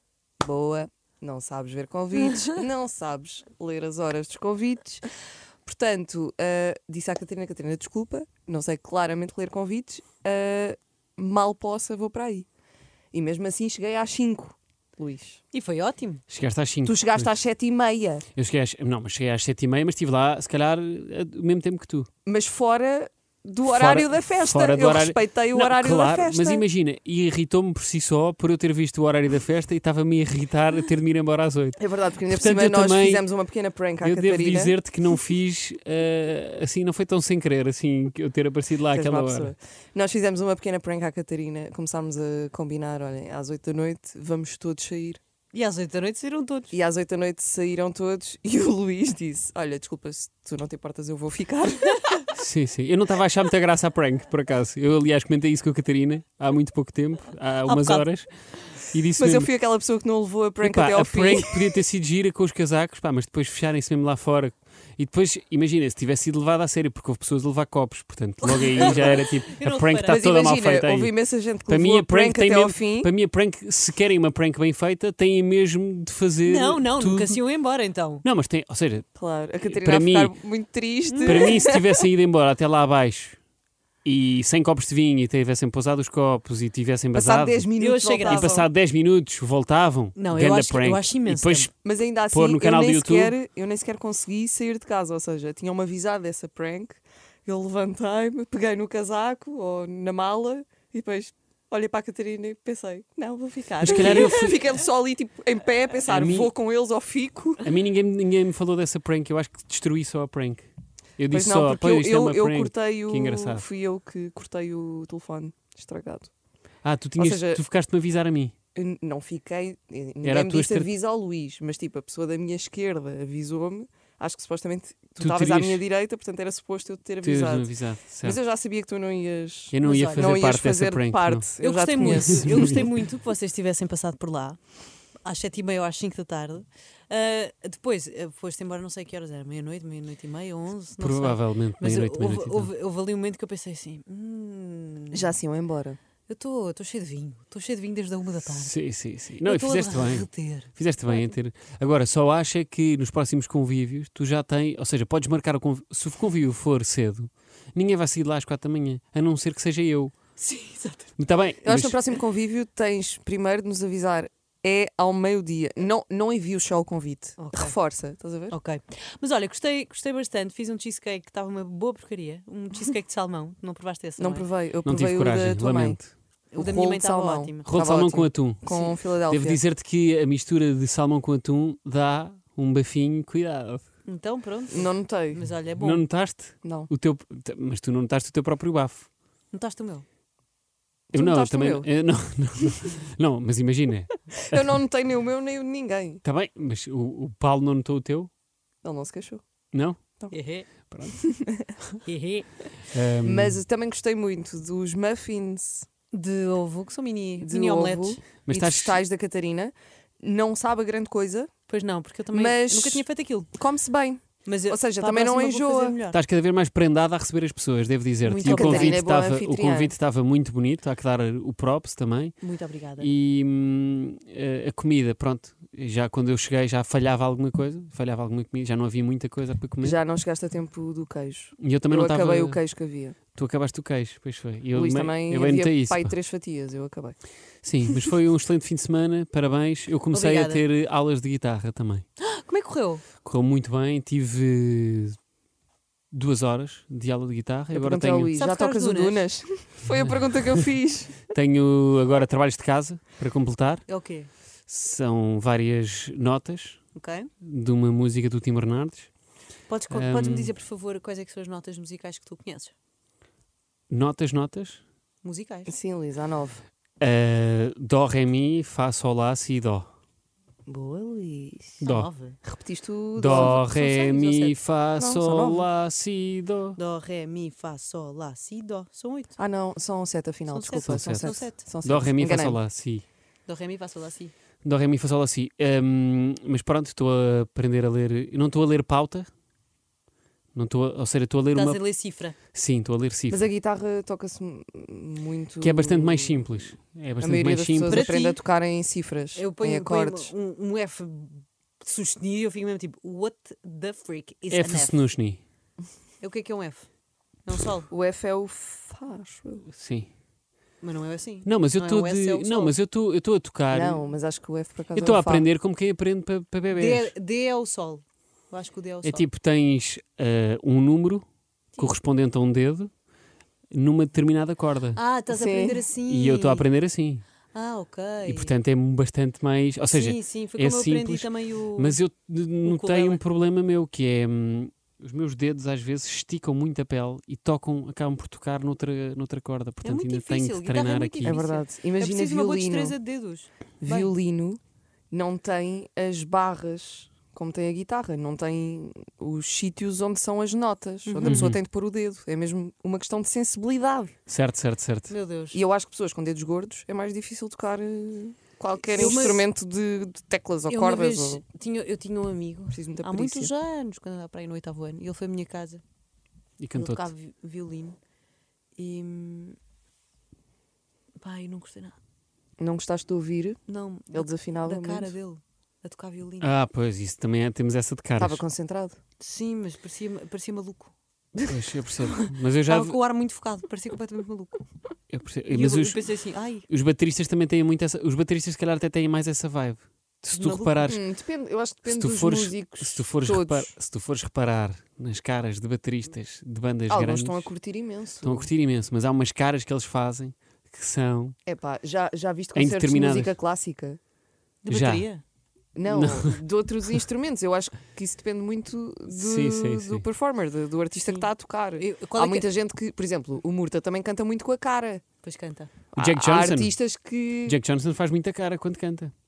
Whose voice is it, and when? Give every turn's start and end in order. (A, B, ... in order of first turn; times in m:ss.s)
0:00.4-0:05.1 A
0:05.7-0:12.5 A
0:13.1-0:15.4 A
0:15.5-0:16.2 B
0:16.3-0:17.4 C
0:16.8-0:18.3 A
0:18.4-0:22.1 C
0:22.2-0:26.6 A
0:23.6-0:33.3 C
0:31.8-0:34.8 A
0:34.0-0:39.5 C
0:38.9-0:45.2 A
0:45.5-0:46.7 B
0:46.7-0:52.3 A
0:52.3-0:59.5 C
0:57.7-0:58.0 B
0:59.2-1:01.5 A
1:00.6-1:17.4 C
1:08.4-1:10.2 B
1:08.7-1:09.3 A
1:10.0-1:13.1 A
1:16.5-1:18.2 B
1:18.2-1:19.1 C
1:19.2-1:22.0 A
1:19.7-1:20.4 C
1:21.1-1:21.5 B
1:21.2-1:23.4 C
1:24.0-1:27.7 C
1:27.1-1:28.7 A
1:27.8-1:28.5 B
1:28.2-1:31.7 C
1:30.2-1:31.7 B
1:31.8-1:47.7 A
1:32.3-1:33.4 C
1:43.8-1:44.6 C
1:46.1-1:46.5 C
1:47.6-1:50.7 C
1:51.2-1:53.6 C
1:51.3-1:56.3 A
1:56.8-1:58.5 C
1:57.2-1:57.6 A
1:58.8-2:12.9 A
2:00.2-2:00.9 C
2:05.2-2:05.8 C
2:07.2-2:08.4 C
2:09.7-2:11.5 C
2:09.8-2:10.3 B
2:11.6-2:14.6 B
2:12.0-2:12.9 C
2:15.2-2:25.3 B
2:21.0-2:22.7 C
2:25.1-2:26.0 A
2:26.3-2:28.8 B
2:28.5-2:40.2 C
2:29.4-2:31.3 B
2:40.4-2:41.1 B
2:41.2-2:42.0 C
2:41.6-2:48.6 A
2:47.4-2:47.8 B
2:48.5-2:54.5 B
2:54.2-2:56.0 A
2:54.8-2:56.1 C
2:56.5-2:59.6 A
2:56.5-2:57.7 B
2:57.6-3:04.0 C
2:58.7-2:58.9 B
3:04.0-3:06.1 B
3:04.7-3:05.4 A
3:05.7-3:09.1 C
3:06.6-3:06.9 A
3:09.5-3:10.0 B
3:11.1-3:11.9 A
3:11.1-3:14.6 C
3:14.5-3:16.2 A
3:16.2-3:18.3 C
3:18.8-3:19.4 A
3:19.7-3:20.0 C
3:20.3-3:20.7 B
3:20.9-3:22.0 C
3:21.2-3:21.7 A
3:22.0-3:22.6 B
3:22.9-3:23.6 C
3:23.2-3:25.9 A
3:26.1-3:28.6 B
3:27.4-3:31.6 A
3:28.5-3:29.0 C
3:31.7-3:33.5 B
3:32.3-3:36.0 A
3:34.4-3:36.2 B
3:36.1-3:42.4 C
3:38.2-3:39.0 B
3:38.4-3:40.0 A
3:42.4-3:43.1 B
3:43.0-3:50.0 C
3:49.8-3:53.2 A
3:51.6-3:52.7 C
3:53.3-3:56.2 C
3:54.7-3:57.2 A
3:57.6-4:02.0 C
4:00.1-4:00.6 B
4:02.2-4:03.0 B
4:03.2-4:05.2 C
4:06.1-4:08.4 C
4:07.7-4:11.3 A
4:08.4-4:09.3 B
4:11.3-4:13.9 C
4:13.9-4:14.3 B
4:14.7-4:16.9 C
4:16.9-4:17.3 B
4:17.4-4:19.1 C
4:19.7-4:22.7 B
4:19.9-4:20.5 C
4:23.9-4:24.8 C
4:25.2-4:25.7 B
4:25.7-4:26.6 A
4:27.0-4:29.9 C
4:30.7-4:31.8 A
4:31.8-4:32.1 C
4:31.8-4:32.4 B
4:32.4-4:33.6 A
4:33.2-4:36.8 C
4:33.3-4:34.6 B
4:35.0-4:35.7 A
4:36.8-4:39.3 B
4:39.4-4:42.6 A
4:40.5-4:41.6 B
4:40.8-4:43.0 C
4:43.5-4:44.3 B
4:44.6-4:49.3 C
4:50.6-4:51.8 C
4:51.5-4:52.4 B
4:52.5-4:53.4 C
4:53.3-5:00.3 A
4:55.6-4:58.2 C
4:57.9-4:58.4 B
4:59.4-5:05.1 B
5:04.5-5:05.4 C
5:06.2-5:06.9 B
5:07.4-5:07.9 B
5:07.9-5:09.7 A
5:09.7-5:10.1 C
5:10.8-5:12.8 B
5:11.4-5:14.0 C
5:13.7-5:15.5 A
5:15.0-5:17.1 C
5:16.7-5:19.3 B
5:19.0-5:21.2 C
5:21.8-5:22.9 C
5:23.7-5:25.0 C
5:25.0-5:26.7 B
5:25.3-5:25.8 A
5:26.1-5:27.3 C
5:27.5-5:28.5 B
5:28.2-5:41.4 C
5:29.9-5:32.0 B
5:32.6-5:33.2 B
5:39.8-5:44.1 B
5:41.2-5:43.0 A
5:43.8-5:44.6 A
5:45.1-5:54.1 A
5:51.1-5:51.5 B
5:51.2-5:51.6 C
5:54.3-5:55.1 C
5:55.1-5:55.6 B
5:55.5-6:01.4 A
5:58.9-5:59.5 B
6:00.7-6:05.8 B
6:02.7-6:03.5 A
6:06.6-6:07.1 C
6:06.7-6:08.0 B
6:08.8-6:09.6 B
6:11.2-6:12.0 B
6:12.6-6:13.6 A
6:13.7-6:16.5 B
6:14.1-6:15.1 A
6:16.4-6:18.4 C
6:18.2-6:19.0 A
6:19.2-6:21.5 B
6:21.4-6:23.0 C
6:22.0-6:24.6 B
6:25.1-6:31.0 C
6:25.5-6:26.6 B
6:30.3-6:30.9 B
6:30.9-6:33.8 A
6:31.9-6:37.5 C
6:36.9-6:38.5 A
6:38.2-6:41.4 C
6:41.5-6:44.0 A
6:42.6-6:43.4 C
6:44.6-6:45.2 B
6:44.7-6:45.1 C
6:45.8-6:55.0 A
6:45.9-6:46.4 C
6:49.1-6:50.0 C
6:51.1-6:52.5 B
6:55.2-6:55.7 B
6:55.9-6:57.6 A
6:56.0-6:56.8 C
6:57.4-6:59.1 C